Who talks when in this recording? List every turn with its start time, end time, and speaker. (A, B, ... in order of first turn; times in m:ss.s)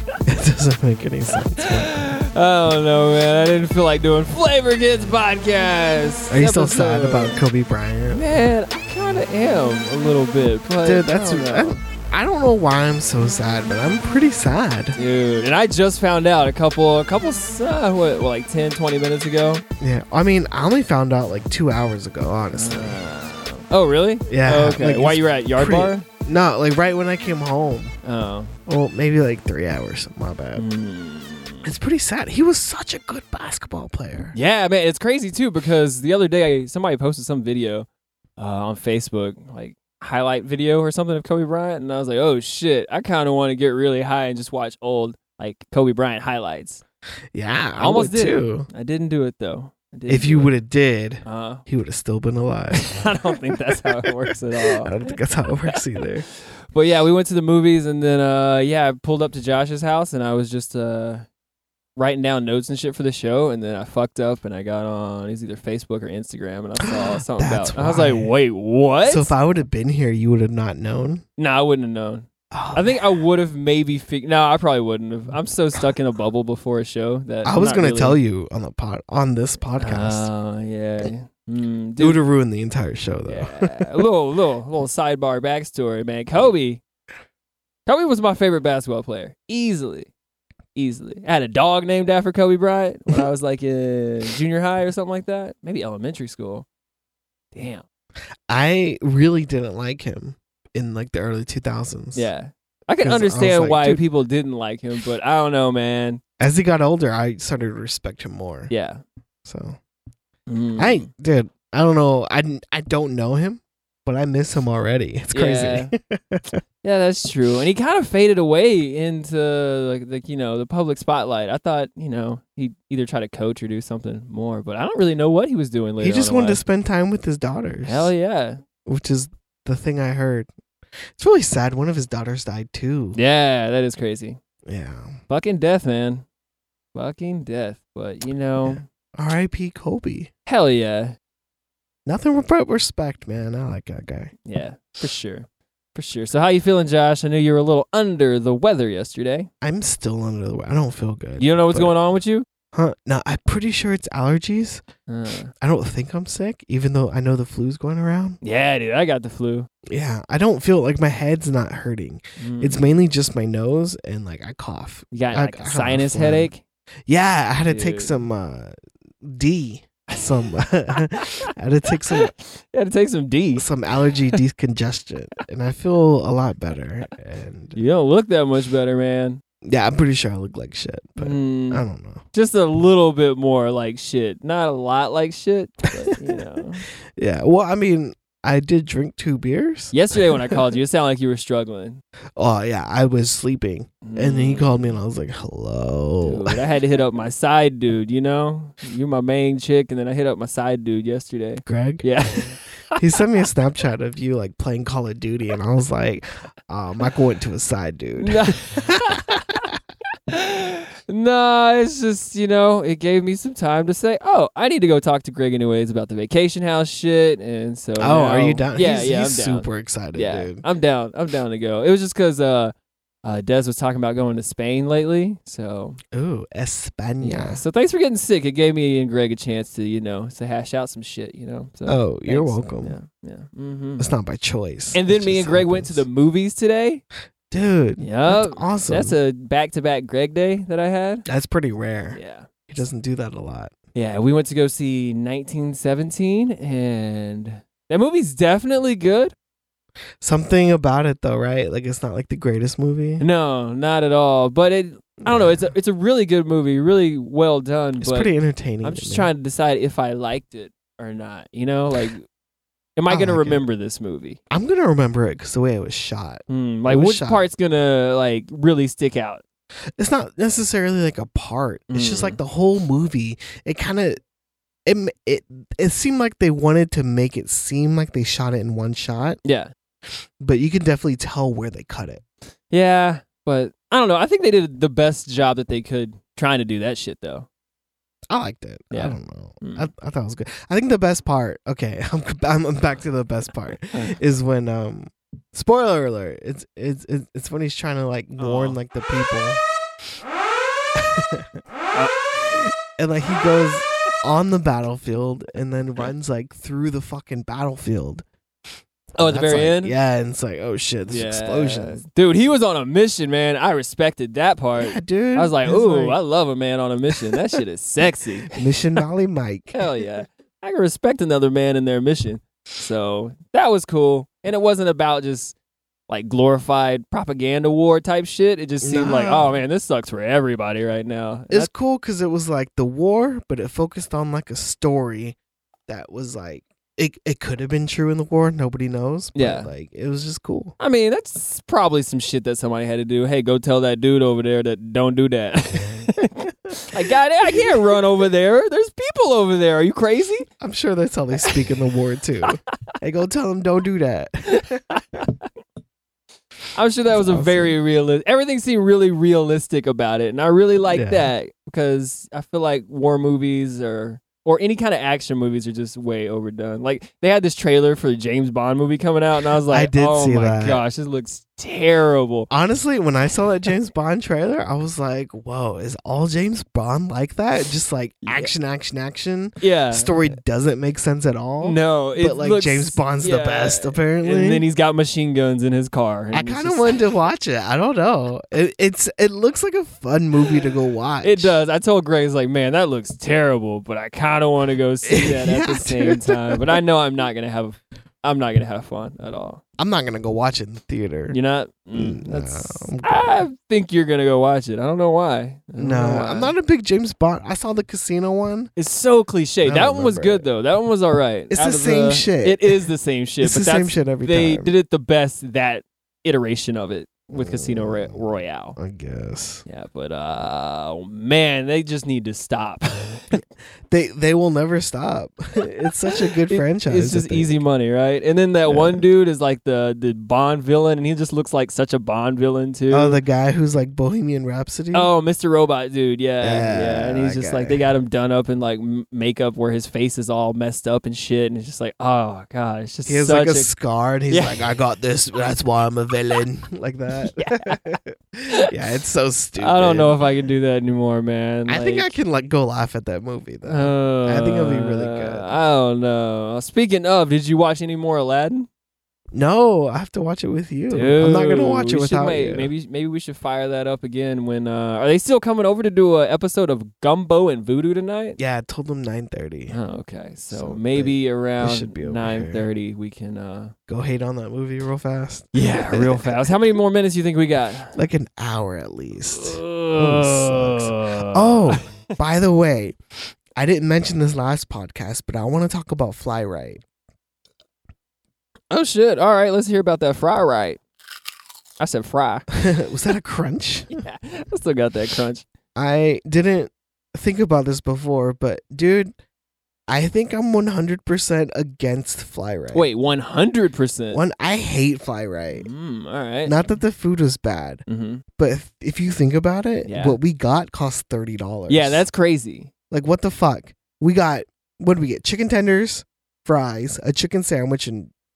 0:00.2-0:02.1 A
0:01.6-0:07.4 B
0:06.3-0:08.2 A
0:08.1-0:11.8 B
0:10.8-0:15.0 A
0:15.0-0:19.6 B
0:19.8-0:23.0 A
0:22.5-0:26.0 B
0:24.3-0:27.9 A
0:28.0-0:28.5 B
0:28.7-0:30.6 A
0:30.6-0:31.7 B
0:31.6-0:34.4 A
0:34.3-0:46.8 B
0:47.3-0:48.7 A
0:47.8-0:50.5 B
0:50.1-0:52.9 A
0:51.2-0:51.6 B
0:52.7-0:55.1 B
0:54.8-0:56.2 A
0:56.7-1:01.2 B
1:02.0-1:09.3 B
1:06.8-1:08.3 A
1:09.0-1:11.2 A
1:11.4-1:18.2 B
1:12.5-1:13.2 A
1:17.4-1:20.3 A
1:19.8-1:22.2 B
1:22.0-1:24.0 A
1:23.3-1:26.8 B
1:27.9-1:30.1 B
1:30.8-1:36.7 B
1:37.5-1:37.8 B
1:38.5-1:42.3 A
1:42.1-1:46.2 B
1:43.0-1:44.0 A
1:46.4-1:48.7 A
1:48.7-1:49.0 B
1:49.4-1:49.8 A
1:50.5-1:51.1 B
1:50.8-1:56.6 A
1:55.3-1:55.9 B
1:56.8-2:06.6 B
2:06.0-2:08.1 A
2:07.8-2:08.6 B
2:08.8-2:10.5 A
2:11.2-2:13.2 A
2:13.1-2:14.4 B
2:14.7-2:15.2 A
2:15.3-2:16.2 B
2:16.9-2:18.8 B
2:18.6-2:20.3 A
2:20.4-2:21.2 B
2:22.1-2:24.3 A
2:24.4-2:29.5 B
2:29.6-2:31.9 A
2:31.4-2:32.4 B
2:32.7-2:34.8 A
2:35.1-2:35.5 B
2:35.6-2:38.4 A
2:38.4-2:39.7 B
2:39.9-2:46.5 A
2:42.4-2:42.8 B
2:45.1-2:46.6 B
2:47.1-2:52.3 A
2:47.7-2:48.2 B
2:50.1-2:50.6 B
2:52.1-2:53.7 B
2:53.6-2:57.8 A
2:57.8-2:59.4 B
2:59.6-3:02.2 A
3:01.2-3:06.8 B
3:07.2-3:10.6 A
3:09.9-3:12.0 B
3:12.4-3:16.6 A
3:14.0-3:14.9 B
3:16.2-3:23.0 B
3:21.6-3:29.8 A
3:28.2-3:29.6 B
3:30.3-3:42.7 B
3:38.0-3:40.6 A
3:43.2-3:46.0 B
3:46.1-3:47.6 A
3:47.2-3:54.1 B
3:51.9-3:53.0 A
3:54.0-3:56.1 A
3:54.9-3:57.0 B
3:57.5-3:59.1 A
3:58.0-4:01.2 B
4:01.2-4:03.7 A
4:02.1-4:02.5 B
4:03.9-4:09.3 B
4:10.2-4:13.2 A
4:13.2-4:18.3 B
4:15.2-4:15.7 A
4:18.0-4:19.3 A
4:18.8-4:22.2 B
4:23.0-4:24.4 B
4:23.1-4:23.6 A
4:24.5-4:27.5 A
4:26.5-4:29.4 B
4:30.0-4:34.2 A
4:31.9-4:32.4 B
4:34.8-4:39.4 A
4:39.4-4:39.7 B
4:40.4-4:42.2 A
4:42.7-4:47.5 B
4:48.3-4:59.6 A
4:48.9-4:49.9 B
4:58.4-4:58.8 B
5:00.9-5:01.6 A
5:02.3-5:08.2 A
5:09.2-5:09.9 B
5:09.2-5:12.0 A
5:11.1-5:18.6 B
5:14.8-5:16.2 A
5:18.5-5:19.8 A
5:19.7-5:25.6 B
5:26.1-5:31.7 B
5:28.8-5:29.6 A
5:31.5-5:35.4 A
5:35.9-5:40.8 A
5:39.3-5:39.7 B
5:40.8-5:50.5 B
5:45.8-5:46.2 A
5:47.5-5:47.8 A
5:50.6-5:54.8 A
5:54.5-5:55.3 B
5:56.7-6:12.5 B
5:57.1-5:57.8 A
6:00.9-6:01.3 A
6:09.7-6:10.8 A
6:12.5-6:24.6 A
6:18.2-6:18.5 B
6:19.6-6:20.3 B
6:21.6-6:27.0 B
6:26.3-6:31.5 A
6:31.2-6:39.6 B
6:35.0-6:36.7 A
6:39.8-6:41.4 A
6:41.3-6:46.5 B
6:41.9-6:43.3 A
6:45.8-6:48.7 A
6:48.8-6:58.8 B
6:49.6-6:50.5 A
6:51.5-6:52.8 A
6:53.4-6:54.7 A
6:57.3-6:58.2 A
6:58.8-6:59.6 A
6:59.6-7:03.4 B
7:03.9-7:07.5 A
7:06.5-7:13.2 B
7:08.7-7:09.0 A
7:12.9-7:15.1 A
7:14.9-7:23.7 B
7:16.4-7:17.8 A
7:23.0-7:30.5 A
7:24.3-7:24.6 B
7:27.3-7:27.8 B
7:29.6-7:32.2 B
7:31.7-7:35.5 A
7:33.7-7:38.7 B
7:39.3-7:42.7 A
7:40.9-7:48.4 B
7:48.4-7:49.7 A
7:49.7-7:53.7 B
7:50.5-7:52.6 A
7:53.9-7:56.5 A
7:55.5-7:58.0 B
7:58.0-8:06.8 A
7:59.3-8:01.8 B
8:08.7-8:10.8 B
8:11.8-8:12.5 B
8:12.6-8:14.0 A
8:13.9-8:15.4 B
8:15.8-8:19.2 A
8:19.9-8:22.9 A
8:22.7-8:24.2 B
8:24.1-8:25.7 A
8:25.5-8:26.6 B
8:26.4-8:27.8 A
8:27.9-8:28.2 B
8:28.4-8:32.0 A
8:29.9-8:30.2 B
8:31.7-8:32.7 B
8:32.9-8:38.1 A